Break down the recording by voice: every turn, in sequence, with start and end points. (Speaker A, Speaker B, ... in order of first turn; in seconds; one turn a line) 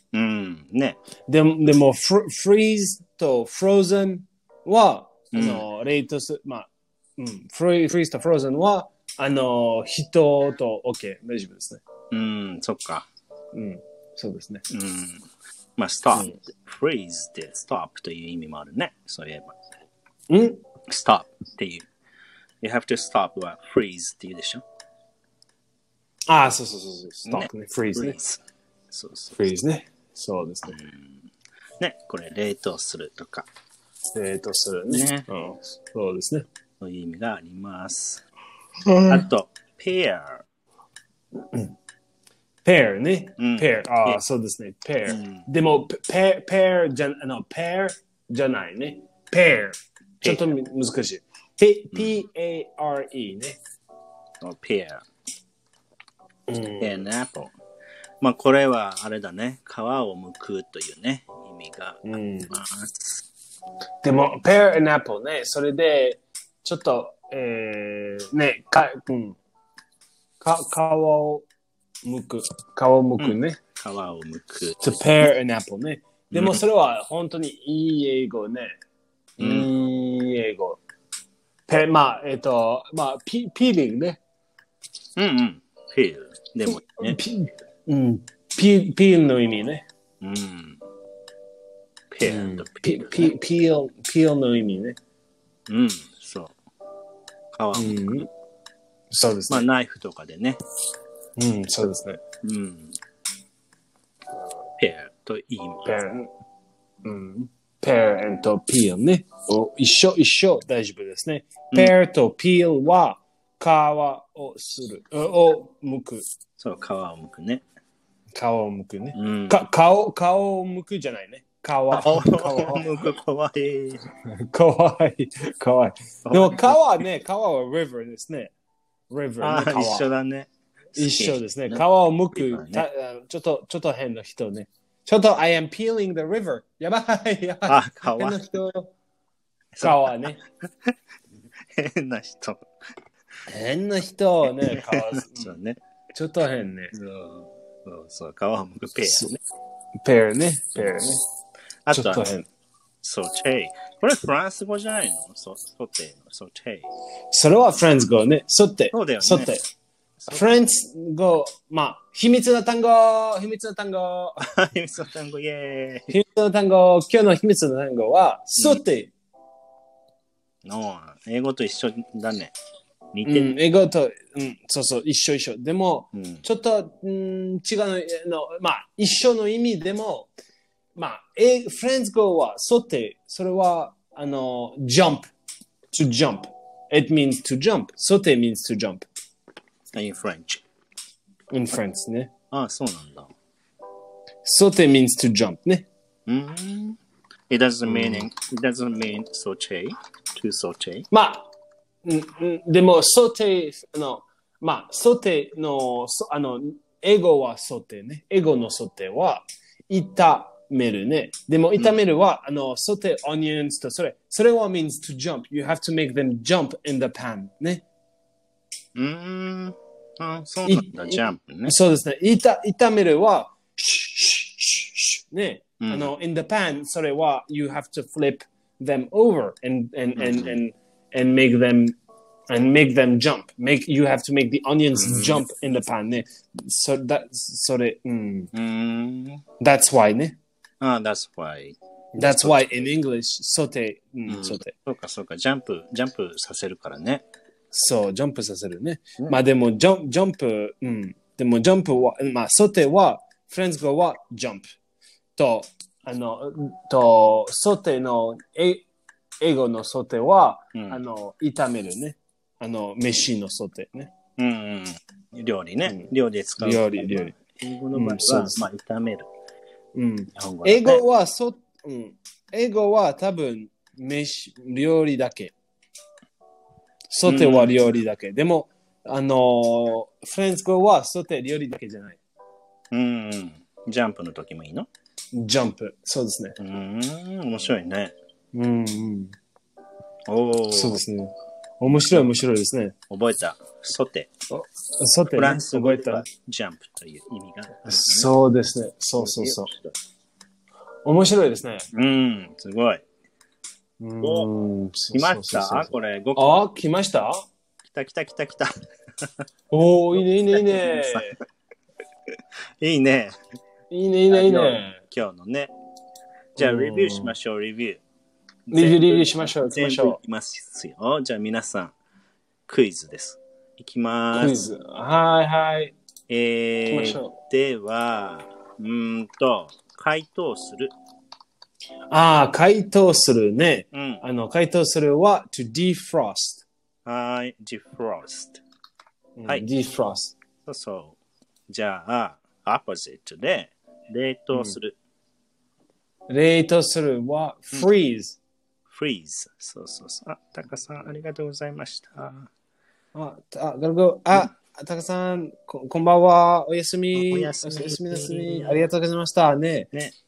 Speaker A: 0.1-1.0
Speaker B: 1.3-11.8
Speaker A: 5.3-5.7
Speaker A: 12.1-13.1
Speaker B: 13.5-14.6
Speaker A: 14.7-15.2
Speaker A: 15.8-19.5
Speaker B: 20.3-20.6
Speaker A: 20.9-21.9
Speaker A: 22.6-24.6
Speaker B: 26.3-28.2
Speaker A: 27.3-28.4
Speaker A: 28.9-29.4
Speaker B: 29.3-30.8
Speaker A: 30.7-31.2
Speaker A: 31.8-33.5
Speaker B: 34.1-36.4
Speaker A: 34.9-35.2
Speaker A: 36.8-38.2
Speaker B: 38.8-39.2
Speaker A: 39.1-40.4
Speaker B: 42.6-53.6
Speaker A: 43.4-44.2
Speaker A: 45.1-45.4
Speaker A: 54.4-55.0
Speaker B: 56.5-57.0
Speaker A: 56.8-57.5
Speaker A: 58.2-63.2
Speaker B: 62.0-62.5
Speaker B: 64.0-69.4
Speaker B: 70.4-71.5
Speaker B: 72.0-73.6
Speaker A: 73.2-75.0
Speaker B: 74.8-78.7
Speaker A: 76.3-76.6
Speaker B: 79.4-80.8
Speaker A: 79.4-79.7
Speaker B: 81.7-84.2
Speaker A: 85.2-87.2
Speaker B: 86.7-89.8
Speaker A: 90.2-90.8
Speaker A: 92.1-93.3
Speaker B: 92.2-95.0
Speaker A: 95.7-96.5
Speaker A: 97.5-98.2
Speaker B: 97.7-98.3
Speaker B: 99.1-99.7
Speaker A: 99.5-100.6
Speaker B: 101.4-102.2
Speaker A: 102.4-102.9
Speaker A: 104.8-105.9
Speaker B: 105.8-106.3
Speaker B: 107.0-116.2
Speaker A: 116.6-117.6
Speaker B: 118.3-123.0
Speaker A: 119.1-119.6
Speaker A: 121.9-124.0
Speaker B: 124.3-128.5
Speaker A: 126.3-127.0
Speaker B: 129.1-130.1
Speaker A: 129.4-132.8
Speaker B: 130.9-138.9
Speaker A: 137.7-138.4
Speaker A: 139.7-140.3
Speaker B: 139.8-140.4
Speaker A: 141.7-142.7
Speaker B: 143.5-145.6
Speaker A: 144.6-145.8
Speaker B: 146.1-146.9
Speaker A: 146.9-149.3
Speaker B: 149.1-149.4
Speaker B: 150.0-151.2
Speaker A: 151.8-152.3
Speaker B: 151.9-152.5
Speaker A: 153.0-156.9
Speaker B: 157.3-159.6
Speaker A: 158.9-159.5
Speaker B: 160.3-164.4
Speaker A: 164.4-166.1
Speaker B: 166.1-169.1
Speaker A: 170.6-172.5
Speaker A: 173.1-173.5
Speaker B: 173.2-180.3
Speaker A: 176.1-176.4
Speaker B: 180.9-185.3
Speaker B: 185.9-189.1
Speaker A: 189.9-190.6
Speaker B: 191.5-192.3
Speaker A: 192.5-193.3
Speaker B: 194.4-195.8
Speaker A: 196.3-197.0
Speaker A: 197.5-201.1
Speaker B: 197.9-198.2
Speaker B: 201.1-201.4
Speaker B: 202.0-217.8
Speaker A: 218.9-221.7
Speaker B: 220.6-231.9
Speaker A: 225.8-226.1
Speaker A: 230.2-230.6
Speaker B: 232.5-238.5
Speaker A: 235.0-235.4
Speaker A: 238.5-239.4
Speaker B: 239.6-240.3
Speaker A: 240.8-242.9
Speaker B: 242.1-244.7
Speaker A: 244.3-247.2
Speaker B: 247.7-254.7
Speaker B: 255.4-258.8
Speaker B: 259.4-264.1
Speaker A: 260.7-261.0
Speaker A: 264.4-269.3
Speaker B: 265.9-267.4
Speaker B: 267.9-268.6
Speaker B: 269.9-275.5
Speaker A: 270.3-271.0
Speaker B: 277.1-282.2
Speaker A: 277.2-277.8
Speaker A: 282.9-284.9
Speaker B: 285.3-286.6
Speaker A: 286.6-288.1
Speaker B: 288.5-289.3
Speaker A: 290.3-291.0
Speaker B: 290.7-292.9
Speaker A: 293.1-294.3
Speaker B: 294.5-296.2
Speaker A: 295.3-298.3
Speaker B: 297.9-299.7
Speaker A: 299.2-299.9
Speaker B: 301.0-301.9
Speaker A: 301.9-303.0
Speaker B: 304.0-307.4
Speaker A: 304.2-304.5
Speaker A: 305.1-306.6
Speaker A: 307.8-309.3
Speaker B: 309.7-311.3
Speaker A: 310.1-311.4
Speaker A: 312.3-313.4
Speaker B: 313.9-315.0
Speaker A: 314.3-315.7
Speaker B: 316.6-317.3
Speaker A: 316.6-318.0
Speaker A: 318.7-321.9
Speaker B: 318.7-320.2
Speaker A: 322.7-324.6
Speaker B: 324.3-325.9
Speaker A: 326.3-330.9
Speaker B: 326.9-327.4
Speaker B: 332.1-336.6
Speaker A: 333.9-334.2
Speaker A: 337.1-338.6
Speaker B: 339.4-340.3
Speaker A: 340.6-341.2
Speaker A: 341.7-344.9
Speaker B: 346.3-348.4
Speaker A: 348.9-352.5
Speaker B: 353.1-359.9
Speaker A: 357.1-358.9